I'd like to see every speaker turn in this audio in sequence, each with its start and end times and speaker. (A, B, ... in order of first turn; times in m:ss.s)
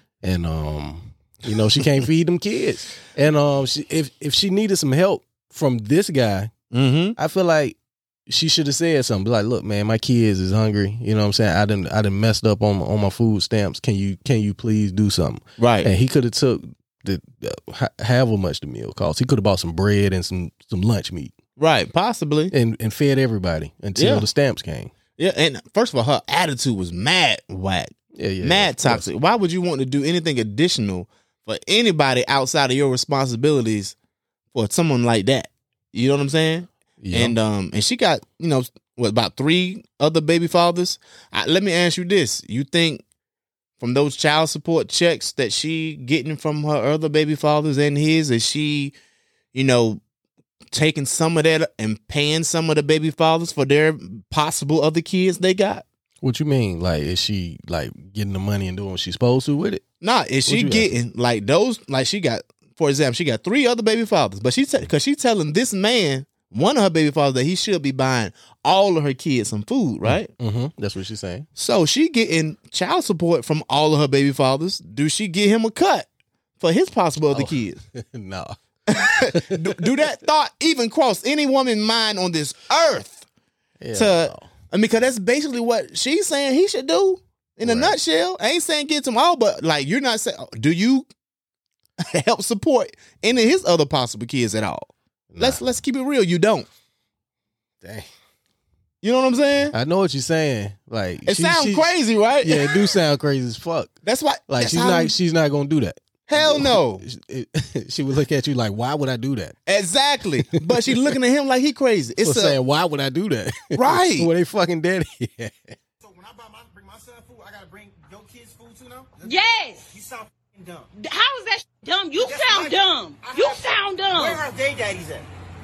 0:00.2-0:06.5 A
0:06.7-0:07.2 B
0:07.2-0:07.8 A
0:08.3-0:21.3 A
0:15.6-0:15.9 B
0:21.6-0:22.5 B
0:22.5-0:24.9 A
0:23.9-0:24.2 B
0:25.2-0:34.0 B
0:28.1-0:29.1 A
0:34.5-0:43.0 B
0:37.0-0:37.4 A
0:43.8-0:48.9 B
0:49.5-0:50.0 B
0:50.7-0:55.8 B
0:56.2-0:59.8 A
1:00.0-1:10.3 B
1:00.4-1:01.0 A
1:10.0-1:11.5 A
1:11.6-1:16.1 B
1:16.6-1:17.8 B
1:17.3-1:20.0 A
1:18.9-1:23.2 B
1:23.8-1:24.5 A
1:23.9-1:31.1 B
1:27.6-1:28.0 A
1:32.1-1:36.7 B
1:35.3-1:35.6 A
1:37.8-1:38.1 A
1:39.0-1:39.7 B
1:39.7-1:43.9 A
1:41.2-1:42.9 B
1:44.0-1:45.1 B
1:44.5-1:49.5 A
1:46.3-1:47.0 B
1:49.6-1:52.6 B
1:50.5-1:51.1 A
1:52.2-1:55.7 A
1:53.7-1:54.3 B
1:56.0-1:59.4 C
1:59.2-1:59.9 D
1:59.9-2:00.9 C
2:01.0-2:04.4 D
2:02.2-2:05.2 C